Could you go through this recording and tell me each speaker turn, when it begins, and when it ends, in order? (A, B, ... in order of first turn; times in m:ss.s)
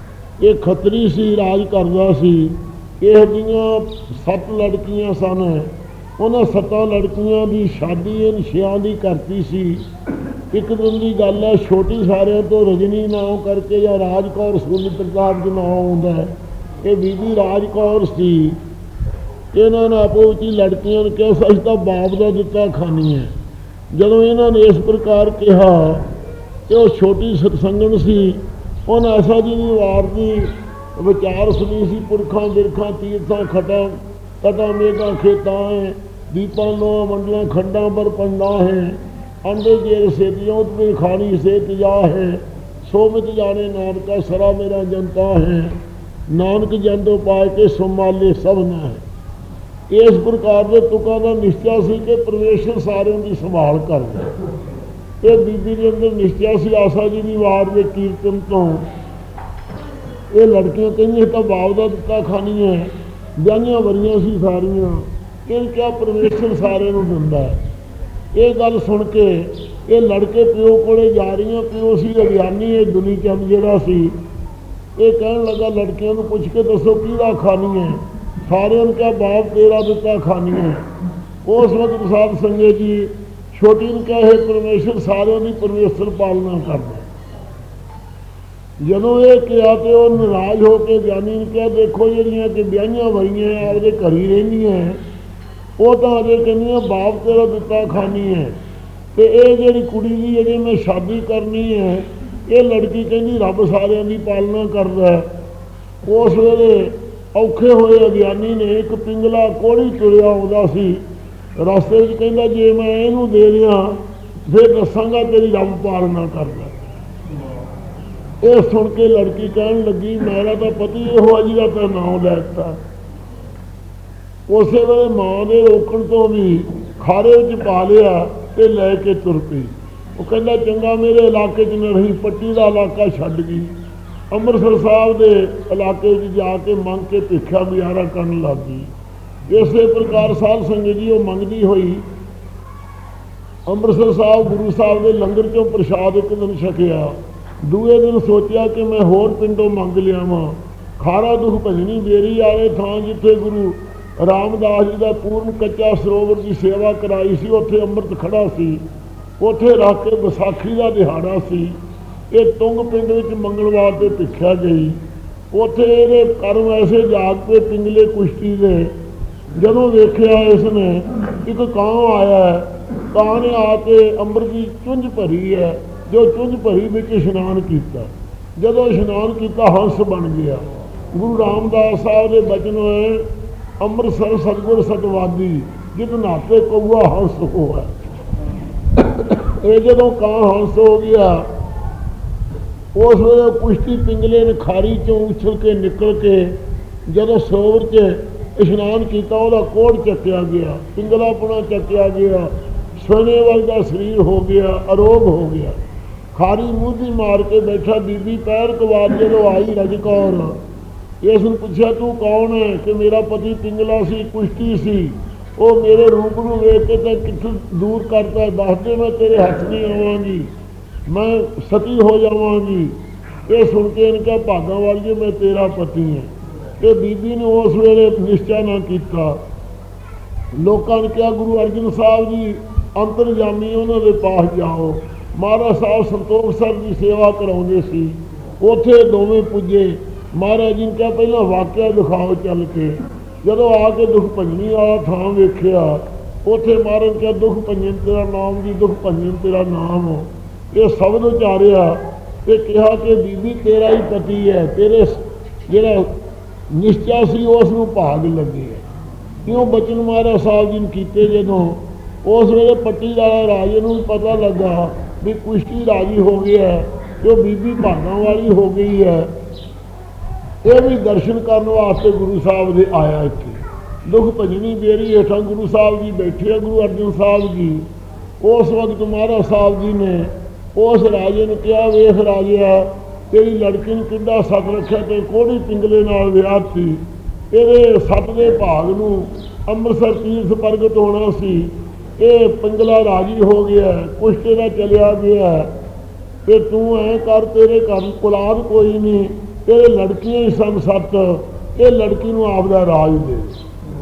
0:00.4-0:09.8 A
0:10.5-0:18.6 A
0:19.5-0:23.3 A
0:23.9-0:26.0 A
0:26.7-0:45.8 A
0:46.3-0:49.0 A
0:49.9-0:54.3 A
0:55.2-0:58.8 A
1:00.3-1:07.6 A
1:08.3-1:14.2 A
1:15.0-1:20.8 A
1:21.4-1:27.1 A
1:28.8-1:35.0 A
1:35.8-1:38.6 A
1:39.1-1:45.3 A
1:46.0-1:51.0 A
1:51.6-1:56.7 A
1:58.4-2:02.8 A
2:04.5-2:13.7 A
2:14.3-2:18.9 A
2:19.5-2:22.0 A
2:23.7-2:38.8 A
2:39.4-2:41.7 A
2:42.3-2:45.0 A
2:45.5-2:48.9 A
2:49.6-3:03.3 A
3:03.8-3:07.9 A
3:09.0-3:11.5 A
3:12.9-3:16.6 A
3:17.1-3:25.8 A
3:26.3-3:30.6 A
3:31.2-3:40.5 A
3:41.1-3:43.0 A
3:43.5-3:49.4 A
3:50.6-4:16.1 A
4:16.7-4:18.8 A
4:19.4-4:29.3 A
4:30.6-4:37.9 A
4:38.4-4:55.7 A
4:56.4-5:03.5 A